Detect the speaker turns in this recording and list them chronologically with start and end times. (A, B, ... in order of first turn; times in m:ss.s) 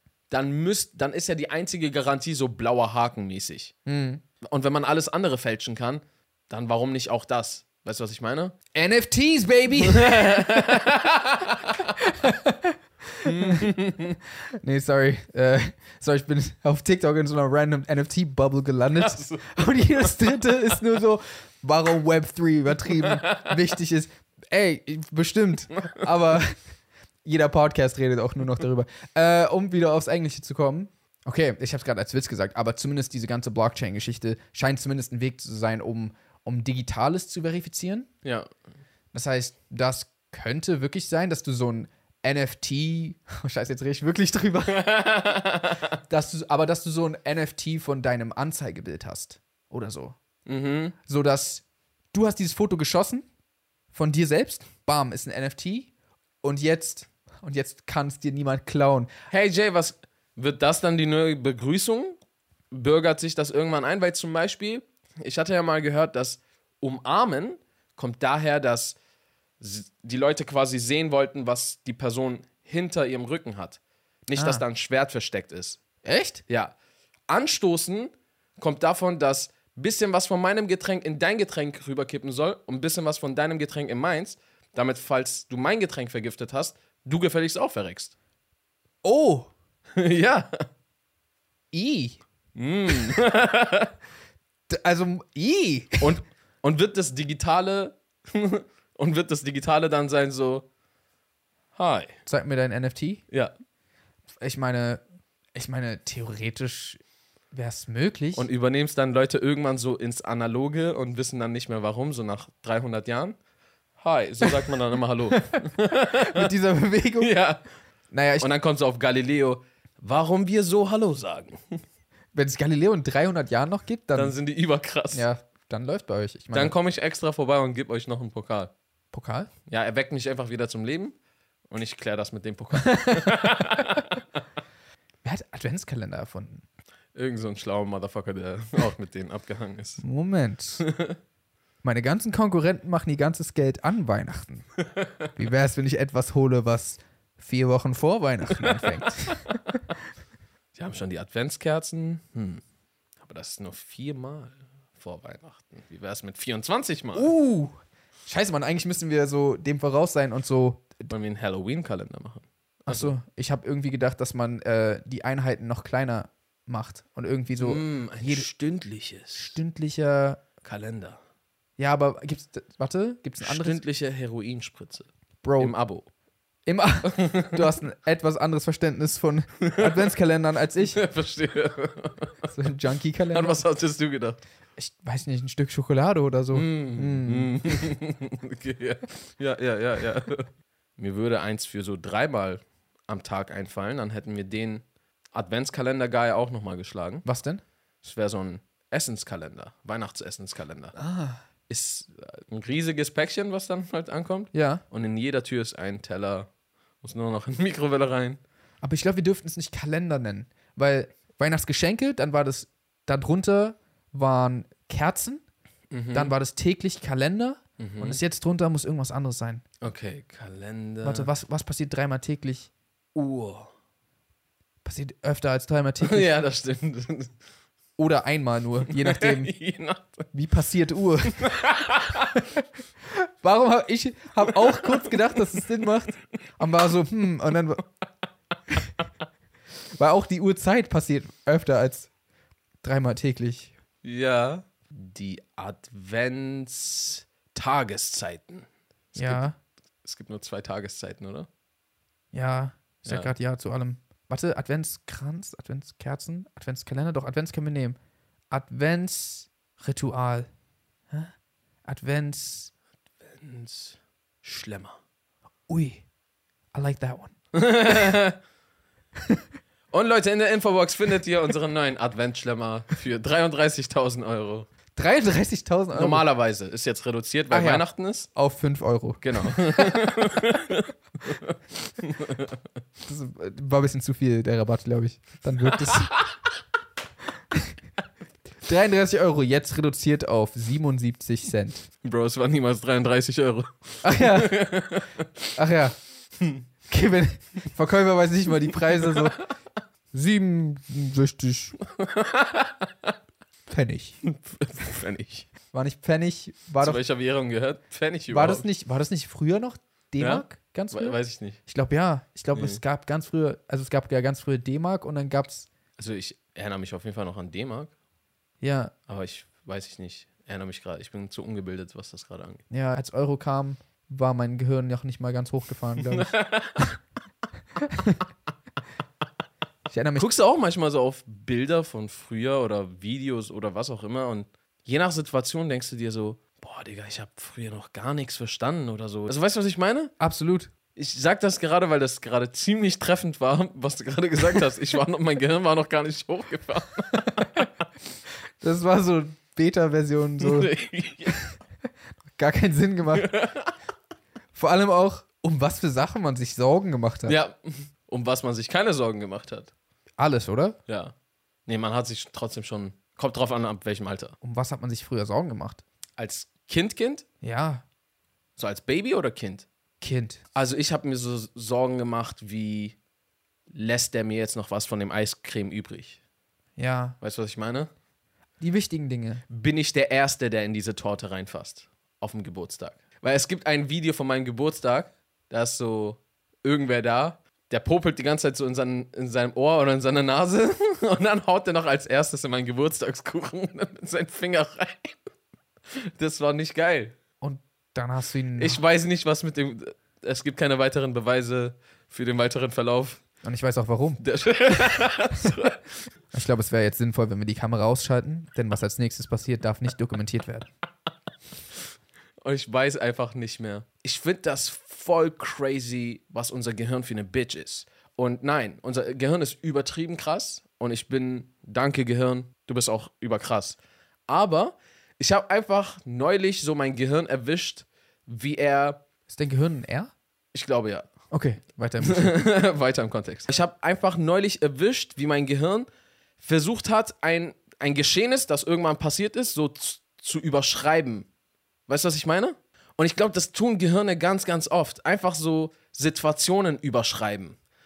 0:00.3-0:03.7 A
0:03.8-0:04.2 B
0:04.4-0:08.5 A
0:08.7-0:10.8 B
0:09.8-0:11.9 A
0:12.0-0:13.8 B
0:13.2-0:14.2 A
0:14.6-0:26.6 B
0:19.0-0:20.5 A
0:23.0-0:23.5 A
0:27.2-0:38.1 B
0:38.2-0:38.5 A
0:39.1-0:44.9 B
0:44.7-0:46.0 A
0:46.1-0:50.2 B
0:50.4-0:50.9 A
0:51.1-0:53.2 B
0:53.9-0:55.9 B
0:56.4-0:59.1 B
0:59.3-1:02.2 A
1:02.7-1:09.0 A
1:09.6-1:15.8 A
1:14.3-1:14.6 B
1:16.0-1:16.4 B
1:16.5-1:16.7 A
1:17.3-1:28.1 A
1:29.0-1:29.5 B
1:30.0-1:30.6 A
1:31.7-1:32.2 B
1:32.5-1:33.9 A
1:34.7-1:36.1 B
1:36.0-1:40.6 A
1:41.8-1:42.1 A
1:42.3-1:43.2 B
1:44.4-1:45.0 B
1:45.5-1:47.0 B
1:47.5-1:48.5 B
1:48.4-1:53.4 A
1:54.0-1:56.5 A
1:56.2-1:57.3 B
1:57.2-1:57.6 A
1:58.1-1:58.5 B
1:58.4-2:01.6 A
2:02.3-2:04.3 B
2:04.1-2:05.2 A
2:05.1-2:06.7 B
2:06.5-2:08.7 A
2:09.1-2:09.5 B
2:09.7-2:11.1 A
2:11.7-2:14.1 A
2:12.9-2:13.8 B
2:15.2-2:16.6 B
2:17.1-2:20.0 A
2:20.0-2:20.8 B
2:20.8-2:21.2 A
2:21.8-2:24.7 B
2:25.3-2:29.8 B
2:28.6-2:29.4 A
2:30.7-2:32.6 A
2:33.2-2:37.3 A
2:37.1-2:41.1 B
2:41.1-2:43.2 A
2:42.9-2:48.5 B
2:47.6-2:49.6 A
2:49.3-2:50.4 B
2:50.6-2:51.2 A
2:51.8-2:53.8 B
2:53.4-2:56.0 A
2:55.4-2:55.7 B
2:56.6-3:01.0 B
2:57.1-2:57.6 A
2:59.6-3:00.0 A
3:00.8-3:02.5 A
3:02.5-3:03.6 B
3:03.3-3:04.4 A
3:04.8-3:07.9 B
3:06.5-3:17.2 A
3:17.2-3:17.6 B
3:18.0-3:20.9 A
3:21.0-3:21.4 B
3:21.7-3:26.5 A
3:24.5-3:24.8 B
3:27.0-3:28.4 A
3:28.8-3:35.4 B
3:35.9-3:36.3 A
3:36.1-3:39.6 B
3:37.8-3:38.2 A
3:39.8-3:41.3 A
3:41.0-3:42.7 B
3:43.1-3:43.7 A
3:44.8-3:46.3 B
3:46.0-3:47.3 A
3:48.0-3:49.5 B
3:48.9-3:50.3 A
3:50.3-3:51.4 B
3:51.3-3:52.4 A
3:53.1-3:57.8 B
3:54.8-3:55.1 A
4:00.0-4:02.1 B
4:02.8-4:03.7 B
4:04.0-4:09.4 A
4:09.2-4:09.5 B
4:10.0-4:11.5 A
4:12.3-4:18.0 B
4:18.5-4:20.5 B
4:21.8-4:22.7 B
4:23.2-4:25.0 A
4:25.7-4:26.0 B
4:26.7-4:27.3 B
4:27.5-4:28.4 A
4:29.9-4:34.7 A
4:34.9-4:36.2 B
4:35.9-4:38.3 A
4:37.5-4:40.1 B
4:39.2-4:42.6 A
4:43.0-4:46.1 B
4:45.9-4:46.2 A
4:48.6-4:51.8 B
4:52.0-4:55.3 A
4:54.0-4:54.7 B
4:55.5-4:56.0 B
4:56.9-4:59.4 B
4:59.1-4:59.5 A
5:00.1-5:01.8 B
5:01.9-5:03.1 A
5:03.7-5:04.2 B
5:04.2-5:05.5 A
5:05.7-5:07.0 B
5:06.8-5:08.6 A
5:08.3-5:15.7 B
5:10.2-5:11.6 A
5:12.5-5:12.8 A
5:16.0-5:17.9 A
5:18.6-5:18.9 B
5:19.1-5:22.6 A
5:22.7-5:26.9 B
5:26.1-5:26.9 A
5:27.8-5:28.2 B
5:29.9-5:30.3 B
5:30.2-5:40.1 A
5:40.2-5:40.7 B
5:40.9-5:47.7 A
5:48.6-5:50.7 B
5:50.4-5:51.4 A
5:52.2-5:53.3 B
5:53.1-5:53.7 A
5:54.5-5:57.4 B
5:57.2-5:59.7 A
6:00.2-6:00.8 B
6:00.9-6:01.1 A
6:01.7-6:04.4 A
6:04.4-6:05.8 B
6:06.2-6:07.2 A
6:07.4-6:07.8 B
6:08.6-6:09.7 A
6:10.0-6:10.4 B
6:10.5-6:13.0 A
6:13.7-6:16.2 A
6:16.8-6:17.2 B
6:17.2-6:17.9 A
6:18.6-6:19.4 B
6:19.5-6:35.2 A
6:36.0-6:37.2 A
6:37.4-6:38.8 B
6:38.6-6:43.2 A
6:43.4-6:45.0 B
6:44.2-6:46.0 A
6:46.3-6:50.7 B
6:52.4-7:09.0 A
7:09.3-7:10.1 B
7:10.5-7:11.1 A
7:11.3-7:12.4 B
7:12.0-7:15.9 A
7:16.4-7:21.3 A
7:21.9-7:27.6 A